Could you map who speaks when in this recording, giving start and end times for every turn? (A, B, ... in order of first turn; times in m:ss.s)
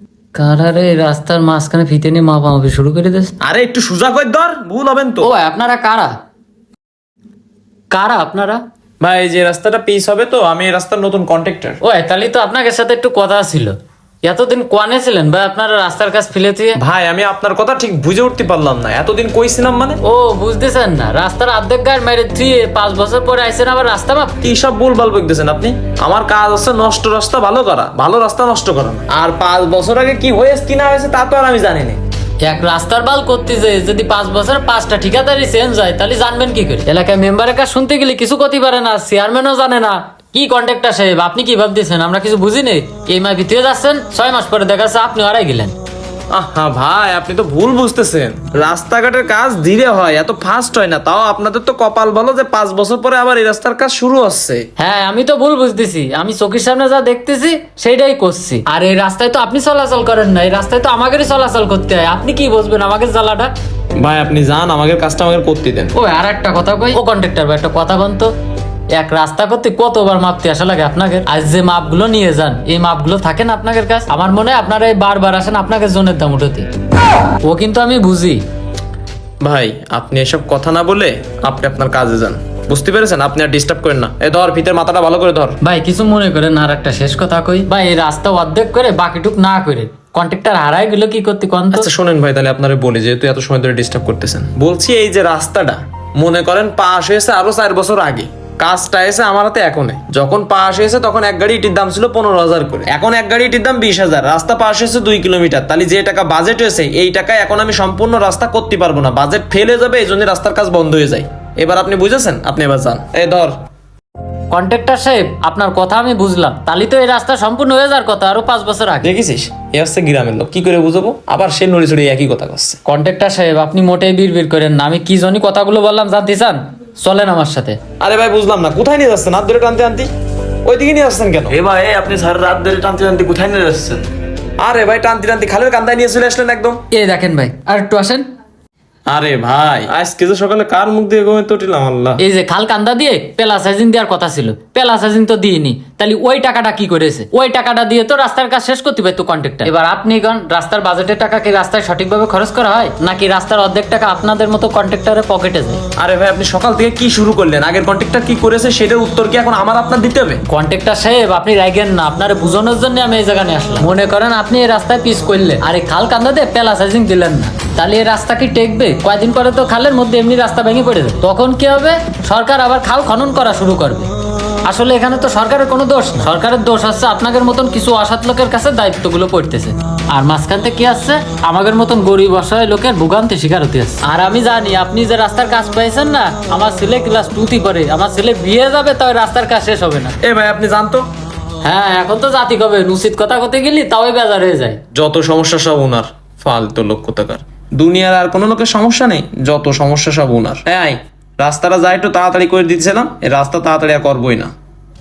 0:00.3-0:03.3 A
0:03.4-0:05.3 B
0:05.2-0:06.1 A
0:07.9-0:08.6 A
0:09.0-0:11.8 B
0:11.8-0:16.8 A
0:16.8-0:20.0 B
0:20.0-0:24.4 A
0:24.4-0:32.0 B
0:32.4-0:45.7 A
0:46.3-0:54.7 B
0:54.8-1:03.5 A
1:04.0-1:05.9 B
1:06.0-1:08.3 A
1:08.9-1:16.7 A
1:17.4-1:18.4 A
1:19.4-1:25.6 B
1:25.6-1:31.9 A
1:31.7-1:53.6 B
1:54.5-1:59.1 A
1:59.0-2:02.8 B
2:02.8-2:07.8 A
2:08.0-2:10.1 B
2:10.6-2:11.6 B
2:11.5-2:14.0 C
2:14.6-2:16.8 B
2:16.9-2:18.3 A
2:19.1-2:22.2 B
2:22.2-2:35.8 A
2:36.0-2:40.4 B
2:40.5-2:54.1 A
2:54.6-3:10.1 A
3:10.2-3:11.0 B
3:11.6-3:14.8 A
3:14.9-3:24.5 B